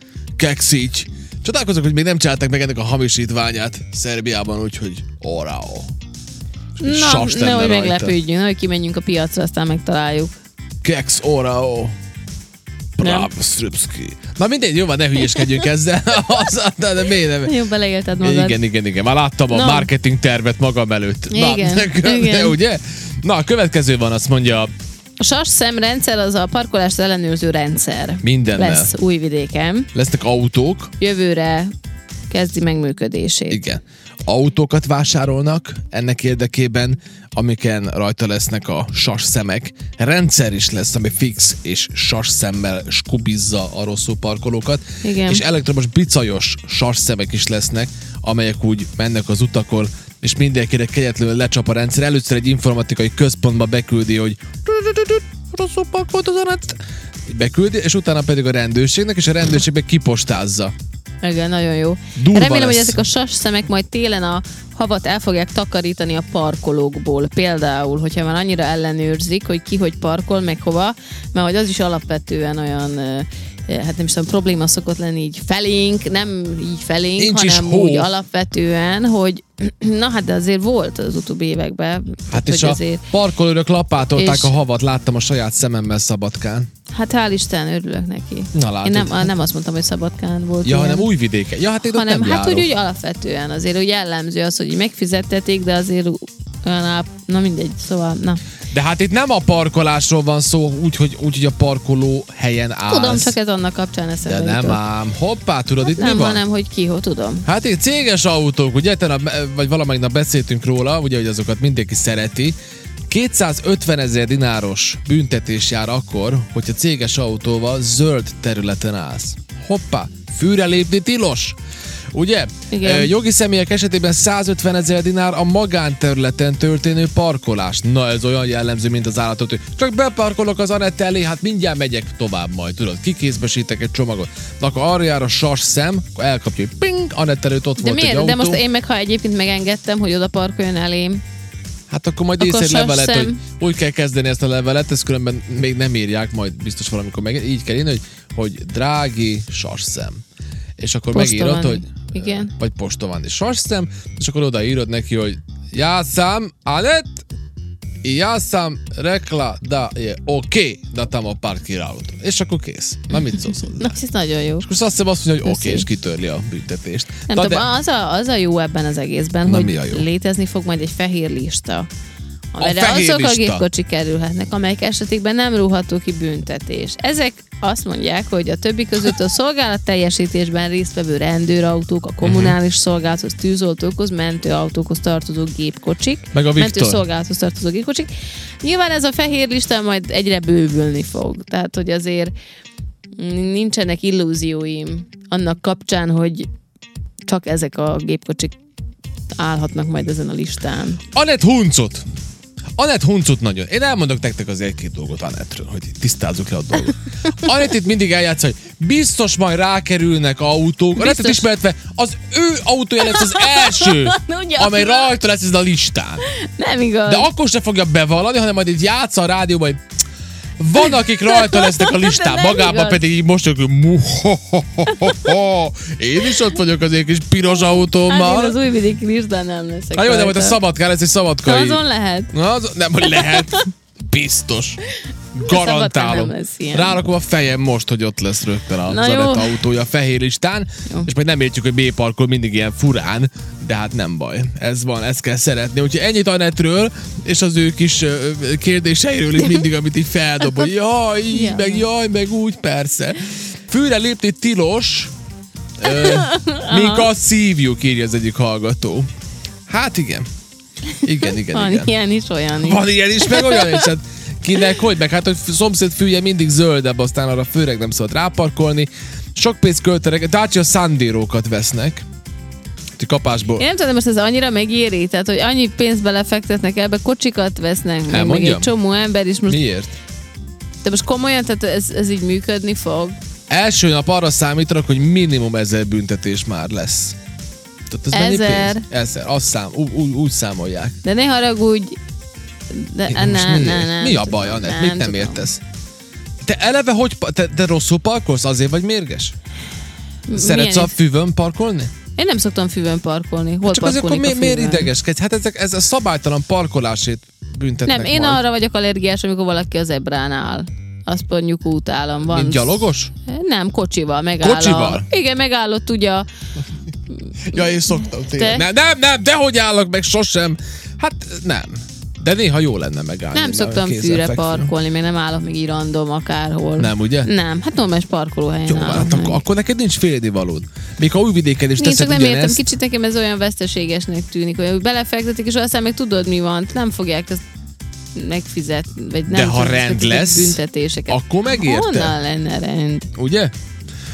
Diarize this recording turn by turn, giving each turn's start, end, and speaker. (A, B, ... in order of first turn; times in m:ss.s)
0:00.4-0:05.9 A
0:06.8-0:08.2 A
0:06.8-0:10.3 B
0:10.8-0:11.9 A
0:13.0-0:17.5 A
0:13.0-0:13.3 B
0:17.4-0:18.6 B
0:18.2-0:24.7 A
0:19.5-0:19.9 B
0:21.3-0:22.6 B
0:25.2-0:29.9 B
0:28.2-0:28.9 A
0:29.9-0:30.9 A
0:31.0-0:31.7 B
0:32.3-0:33.6 B
0:33.5-1:00.7 A
0:45.0-0:45.4 B
1:01.2-1:23.0 B
1:02.1-1:03.0 A
1:17.2-1:18.1 A
1:22.3-1:26.7 A
1:24.1-1:24.5 B
1:26.9-1:31.1 B
1:28.5-1:29.3 A
1:30.6-1:32.7 A
1:31.9-1:38.4 B
1:38.7-1:43.4 A
1:42.9-1:44.8 B
1:44.2-1:46.4 A
1:45.8-1:47.4 B
1:47.4-1:52.6 A
1:53.1-2:01.6 A
2:02.1-2:18.6 A
2:02.7-2:03.1 B
2:17.8-2:21.2 B
2:21.9-2:30.2 A
2:22.4-2:23.4 B
2:30.8-2:37.2 A
2:31.1-2:32.5 B
2:38.0-2:44.0 A
2:43.7-2:44.6 B
2:44.6-2:47.6 A
2:45.4-2:45.9 B
2:47.3-2:51.9 B
2:49.4-2:50.1 A
2:52.5-3:08.1 B
2:52.6-2:53.6 A
3:02.2-3:02.6 A
3:06.3-3:07.0 A
3:08.6-3:12.3 B
3:13.2-3:16.5 B
3:17.3-3:18.6 B
3:19.4-3:21.0 B
3:21.1-3:22.0 A
3:22.8-3:36.2 A
3:30.9-3:31.5 B
3:33.0-3:35.1 B
3:36.2-3:37.3 B
3:37.1-3:39.8 A
3:40.6-3:48.6 A
3:41.3-3:43.0 B
3:47.7-3:50.6 B
3:50.0-3:54.8 A
3:51.4-3:52.3 B
3:53.0-3:53.6 B
3:55.3-4:15.1 A
3:55.4-3:57.0 B
3:58.8-3:59.6 B
4:11.3-4:11.8 B
4:15.8-4:19.1 A
4:16.0-4:17.1 B
4:19.7-4:20.3 A
4:21.0-4:21.9 A
4:21.4-4:23.9 B
4:22.6-4:32.0 A
4:33.0-4:33.6 A
4:33.6-4:39.6 B
4:38.1-4:38.7 A
4:39.5-4:39.9 A
4:40.8-4:43.2 B
4:43.5-4:47.2 A
4:47.9-4:51.0 A
4:48.1-4:48.9 B
4:51.0-4:52.0 B
4:52.7-4:55.4 B
4:53.1-4:55.6 A
4:56.4-4:59.3 A
5:00.3-5:00.9 B
5:00.3-5:01.9 A
5:02.2-5:04.9 B
5:03.6-5:08.4 A
5:07.8-5:16.3 B
5:12.3-5:13.1 A
5:14.4-5:15.1 A
5:17.4-5:24.7 A
5:17.4-5:18.6 B
5:23.3-5:29.4 B
5:26.8-5:27.3 A
5:28.7-5:32.6 A
5:31.8-5:37.4 B
5:38.1-5:43.1 B
5:39.3-5:42.2 A
5:43.1-5:43.5 A